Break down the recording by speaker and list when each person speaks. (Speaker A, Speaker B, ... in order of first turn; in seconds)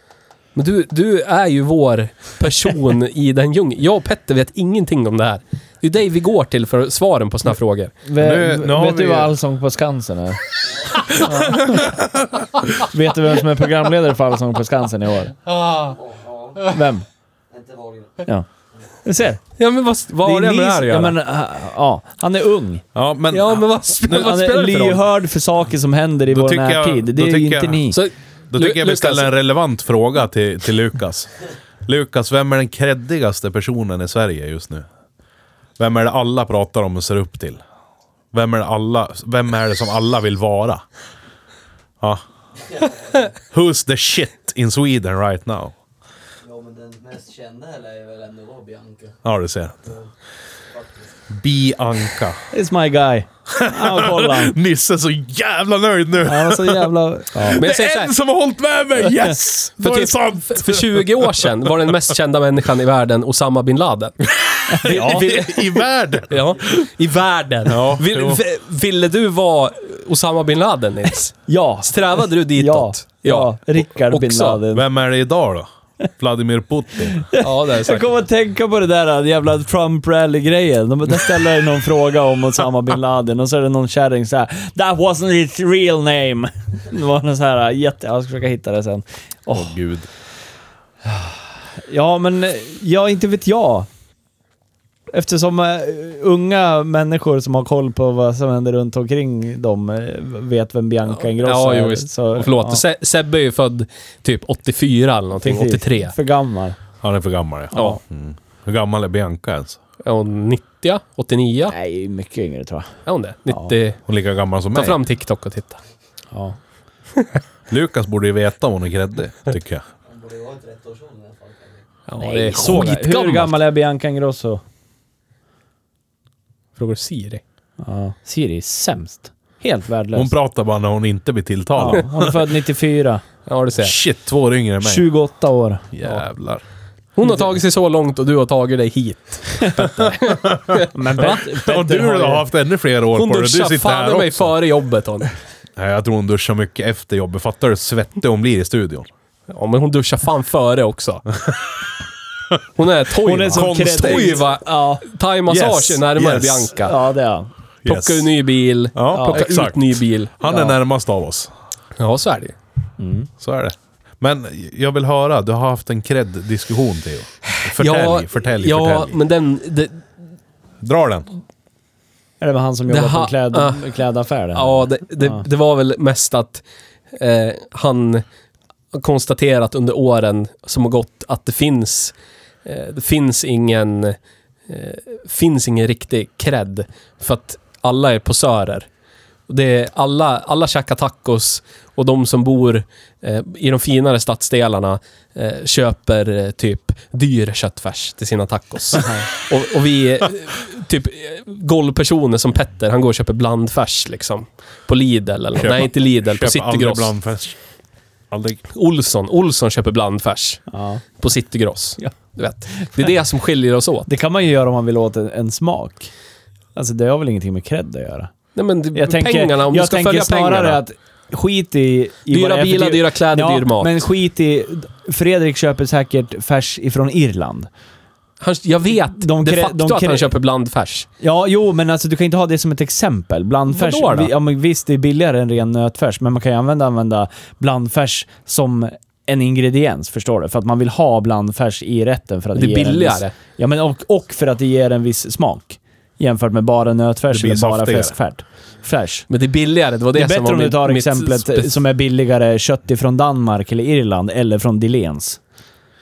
Speaker A: 0.5-7.9, 15.5-16.0, 19.6-21.2, 23.3-25.0, 27.9-29.3, 57.5-58.1, 59.8-64.2, 64.8-65.7, 66.3-74.6, 77.4-78.1, 101.2-106.1, 110.0-111.7, 113.0-114.0, 114.7-115.8, 122.1-123.6, 126.8-127.4, 133.4-133.9, 137.2-140.6, 143.1-145.3, 149.5-151.2, 152.8-156.9, 157.8-160.3, 162.0-162.5, 167.5-170.1, 172.9-173.9, 174.5-178.2, 178.9-182.1, 182.6-184.2, 184.7-188.9, 189.5-207.1, 208.7-210.7, 211.2-214.1, 218.5-220.8, 222.3-223.9, 228.4-231.1, 233.7-234.3, 242.5-243.3, 249.3-251.8
Speaker B: 8.0-10.4, 11.1-11.9, 12.8-15.3, 16.6-17.0, 19.0-19.4, 20.2-22.8, 24.0-28.0, 52.5-54.5, 56.2-57.6, 64.7-65.5, 71.5-74.8, 77.1-89.8, 91.0-93.9, 95.1-102.8, 105.4-106.8, 107.7-108.0, 111.7-112.9, 113.5-113.7, 116.3-116.6, 122.2-124.6, 127.8-130.3, 131.8-133.2, 134.8-135.9, 140.8-142.4, 153.2-156.0, 156.8-157.5, 159.1-159.4, 160.4-160.7, 163.0-163.3, 172.4-175.4, 198.9-199.3, 210.7-211.0, 214.1-216.1, 216.7-218.3, 218.9-227.7, 228.9-230.3, 231.2-249.2, 250.1-255.4
Speaker C: 8.2-9.3, 11.6-12.4, 22.9-23.6, 26.3-28.0, 28.5-31.3, 31.9-34.9, 35.8-37.6, 38.3-40.8, 43.3-45.7, 49.2-50.1, 51.3-52.4, 53.5-62.0, 64.3-66.5, 67.7-68.4, 74.7-77.2, 89.5-90.1, 107.0-109.8, 114.1-115.0, 117.7-119.8, 130.1-132.4, 133.8-135.1, 135.9-136.6, 139.8-144.5, 145.8-149.1, 153.5-154.4, 156.2-156.7, 157.8-158.3, 158.9-161.5, 163.4-169.2, 170.8-171.3, 205.6-207.6, 208.3-208.6, 247.3-248.2
Speaker D: 46.5-49.0, 120.4-121.4